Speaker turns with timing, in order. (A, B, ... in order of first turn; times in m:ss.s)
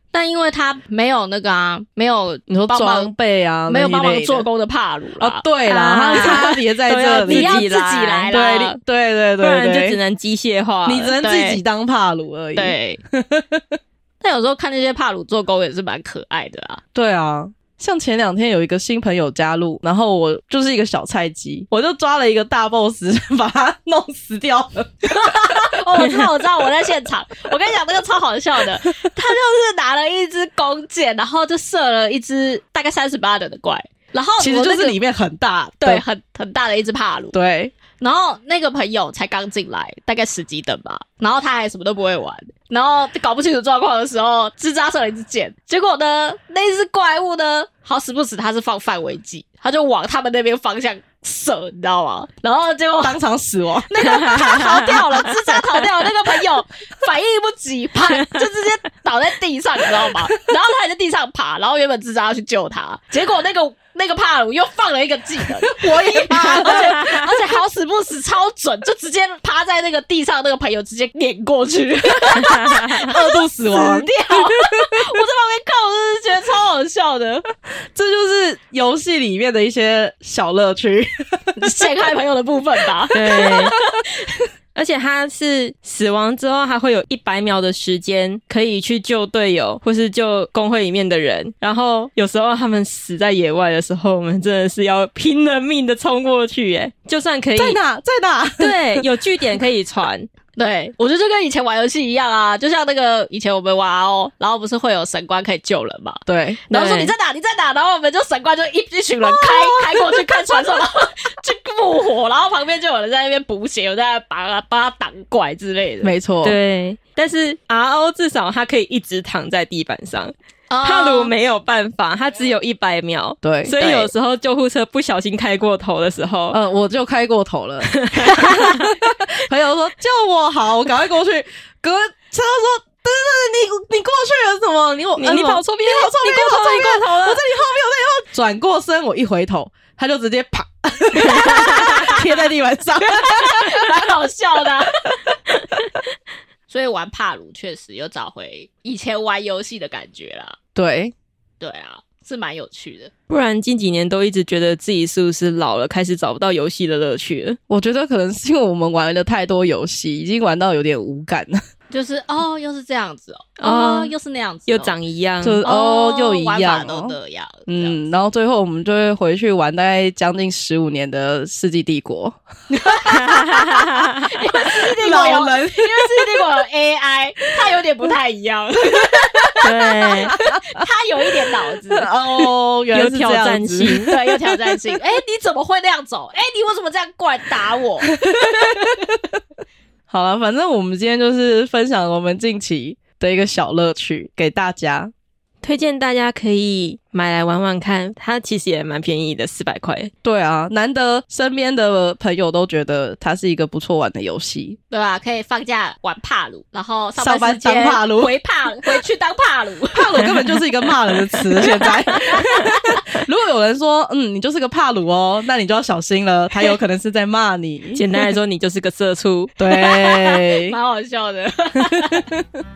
0:00.1-0:03.1 A
0:02.5-0:04.5 B
0:03.7-0:06.6 A
0:05.2-0:07.7 B
0:05.7-0:08.3 C
0:07.2-0:08.8 A
0:08.3-0:10.0 B
0:09.4-0:11.2 C
0:10.9-0:13.8 B
0:11.2-0:11.6 A
0:12.6-0:13.0 A
0:14.2-0:16.8 A
0:17.0-0:25.8 B
0:25.0-0:35.0 A
0:34.4-0:36.0 B
0:35.8-0:37.4 A
0:37.3-0:37.7 B
0:38.0-0:53.2 A
0:53.0-0:54.8 B
0:53.9-1:17.5 A
1:05.6-1:07.1 B
1:13.0-1:14.9 B
1:18.0-1:21.9 B
1:21.6-1:24.4 A
1:23.1-1:23.8 C
1:23.2-1:23.8 B
1:24.8-1:37.8 C
1:37.6-1:39.1 B
1:38.6-1:40.3 C
1:40.6-1:56.1 A
1:46.3-1:46.6 B
1:46.7-1:47.1 C
1:49.2-1:50.6 B
1:56.0-1:56.6 B
1:56.4-2:06.6 C
2:00.7-2:01.3 A
2:03.4-2:03.8 B
2:03.8-2:04.1 A
2:06.5-2:24.1 B
2:07.9-2:08.9 C
2:15.2-2:17.4 C
2:21.2-2:22.2 C
2:23.0-2:25.0 A
2:26.7-2:30.6 A
2:30.8-2:31.1 B
2:31.6-2:33.1 A
2:33.3-2:37.6 C
2:37.7-2:41.6 B
2:41.9-2:45.0 A
2:43.6-2:44.1 C
2:44.7-2:45.6 C
2:45.4-2:47.2 B
2:45.6-2:48.0 A
2:47.7-2:56.4 B
2:53.1-2:54.2 C
2:54.2-3:02.1 A
2:59.6-3:00.4 C
3:00.1-3:00.8 B
3:01.9-3:05.0 B
3:02.9-3:04.1 C
3:04.0-3:08.9 A
3:08.2-3:09.0 B
3:10.1-3:15.1 B
3:15.6-3:20.1 C
3:20.2-3:24.8 B
3:24.9-3:30.2 A
3:27.2-3:28.3 B
3:29.9-3:38.1 B
3:31.8-3:33.0 A
3:38.0-3:39.6 C
3:39.6-3:40.8 B
3:39.7-3:42.3 A
3:41.8-3:42.5 B